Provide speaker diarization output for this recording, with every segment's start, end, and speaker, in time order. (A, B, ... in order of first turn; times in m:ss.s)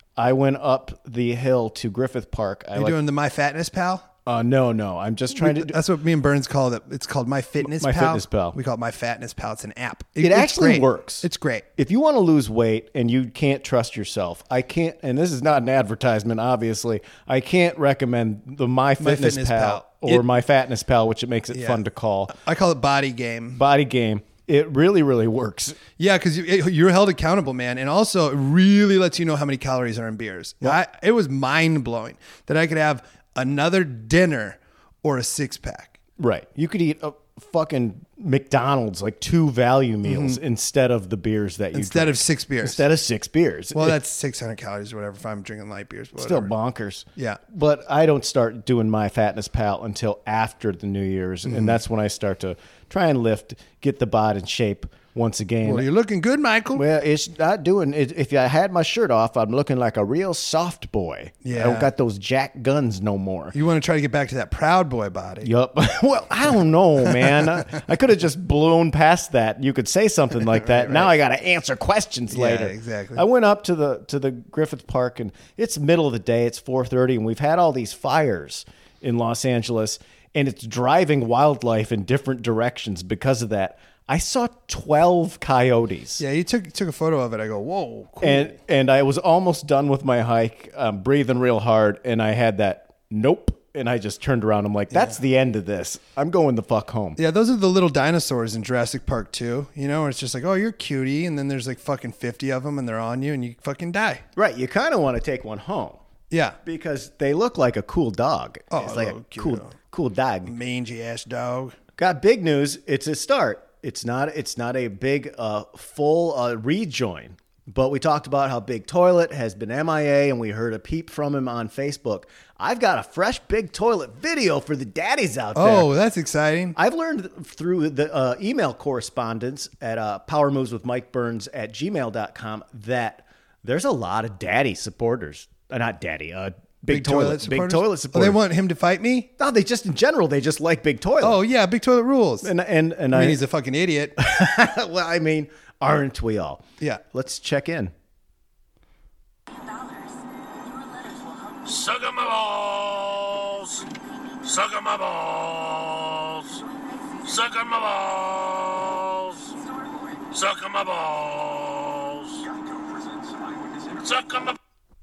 0:00.2-0:03.0 A
0:02.8-0:04.1 B
0:04.3-0:05.8 A
0:05.4-0:11.7 B
0:07.6-0:08.6 A
0:10.2-0:22.3 A
0:19.0-0:20.2 B
0:21.5-0:23.6 B
0:23.6-0:25.8 A
0:26.0-0:36.0 B
0:36.2-0:44.0 A
0:40.0-0:40.4 B
0:41.7-0:42.8 B
0:43.7-0:46.5 B
0:46.2-0:55.9 A
0:51.4-0:51.8 B
0:55.6-0:56.8 B
0:56.7-1:03.6 A
1:01.4-1:01.9 B
1:03.5-1:05.5 B
1:05.4-1:26.2 A
1:07.0-1:07.8 B
1:10.6-1:11.1 B
1:12.3-1:13.2 B
1:26.2-1:28.6 B
1:28.2-1:37.2 A
1:37.2-1:44.2 B
1:44.4-1:46.0 A
1:46.3-1:46.6 B
1:46.6-1:50.5 A
1:48.7-1:49.7 B
1:50.5-1:51.8 B
1:52.0-2:05.9 A
2:05.6-2:06.8 B
2:06.8-2:18.4 A
2:16.9-2:19.3 B
2:19.4-2:21.4 A
2:21.2-2:22.5 B
2:22.4-2:23.4 A
2:23.1-2:24.2 B
2:24.2-2:27.9 A
2:31.6-2:33.8 C
2:34.5-2:36.4 C
2:37.3-2:39.2 C
2:40.4-2:42.4 C